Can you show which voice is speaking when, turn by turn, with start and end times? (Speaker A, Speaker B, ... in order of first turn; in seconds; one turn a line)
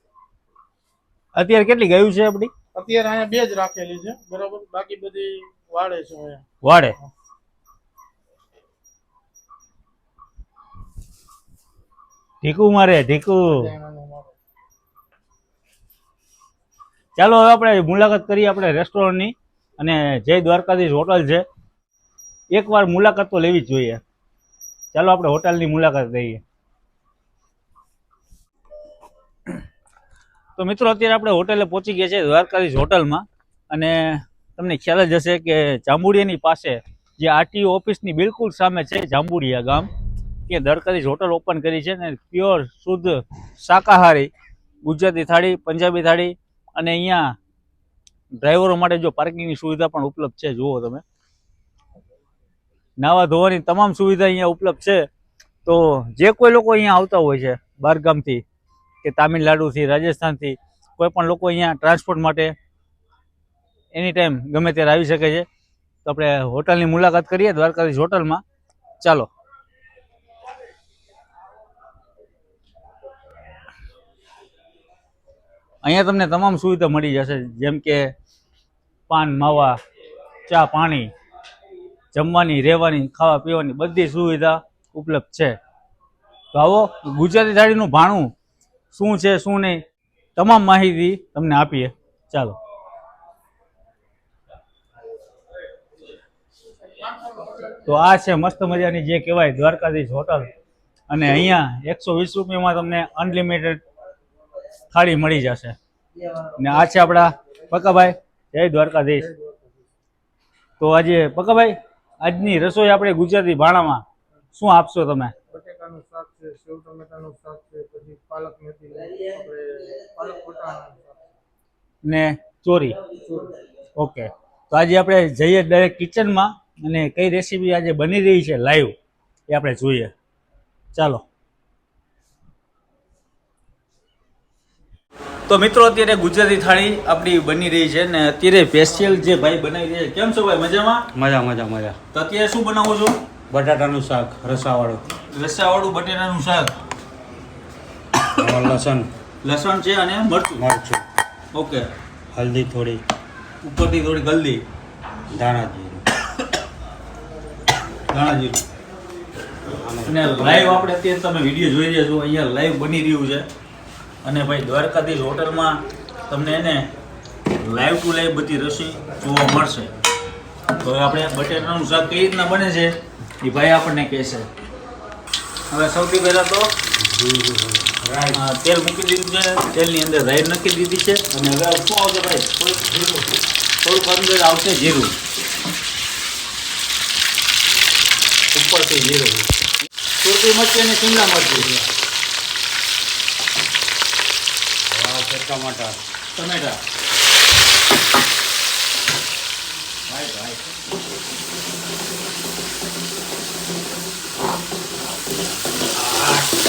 Speaker A: 1.3-2.5
Speaker B: 2.7-6.4
Speaker A: 6.6-7.0
Speaker A: 12.4-13.7
Speaker B: 13.5-14.3
Speaker A: 17.2-21.4
Speaker A: 22.5-24.0
Speaker A: 24.9-26.4
Speaker A: 30.6-39.9
Speaker A: 40.5-44.3
Speaker A: 44.8-47.3
Speaker A: 48.4-51.0
Speaker A: 53.0-55.0
Speaker A: 55.6-58.4
Speaker A: 59.0-62.5
Speaker A: 63.9-65.5
Speaker A: 66.0-68.4
Speaker A: 69.0-69.3
Speaker A: 75.8-78.1
Speaker A: 79.1-79.8
Speaker A: 80.5-81.1
Speaker A: 82.1-85.5
Speaker A: 86.5-88.3
Speaker A: 88.9-89.8
Speaker A: 90.3-92.5
Speaker A: 97.6-100.5
Speaker A: 101.1-103.8
Speaker A: 104.9-105.8
Speaker A: 106.4-109.3
Speaker B: 109.3-109.7
Speaker A: 110.8-115.3
Speaker B: 115.5-121.2
Speaker A: 122.0-123.0
Speaker A: 124.0-128.9
Speaker A: 129.5-130.1
Speaker A: 130.9-131.2
Speaker A: 135.5-141.1
Speaker C: 141.1-142.0
Speaker A: 142.1-143.2
Speaker C: 143.5-145.1
Speaker A: 145.3-146.7
Speaker C: 148.2-149.1
Speaker A: 149.4-150.6
Speaker C: 150.6-151.1
Speaker A: 151.5-151.9
Speaker C: 152.3-153.0
Speaker A: 153.6-154.6
Speaker C: 155.3-156.0
Speaker A: 158.1-158.6
Speaker C: 159.7-160.8
Speaker A: 160.1-163.4
Speaker A: 164.2-166.9
Speaker A: 167.5-169.9
Speaker A: 170.8-174.5
Speaker A: 175.7-176.7
Speaker C: 177.0-178.4
Speaker A: 178.3-182.6
Speaker C: 182.7-183.2
Speaker A: 183.8-185.1
Speaker A: 188.5-189.5
Speaker A: 190.2-191.8
Speaker C: 194.9-196.0
Speaker A: 196.3-196.8
Speaker A: 200.1-200.6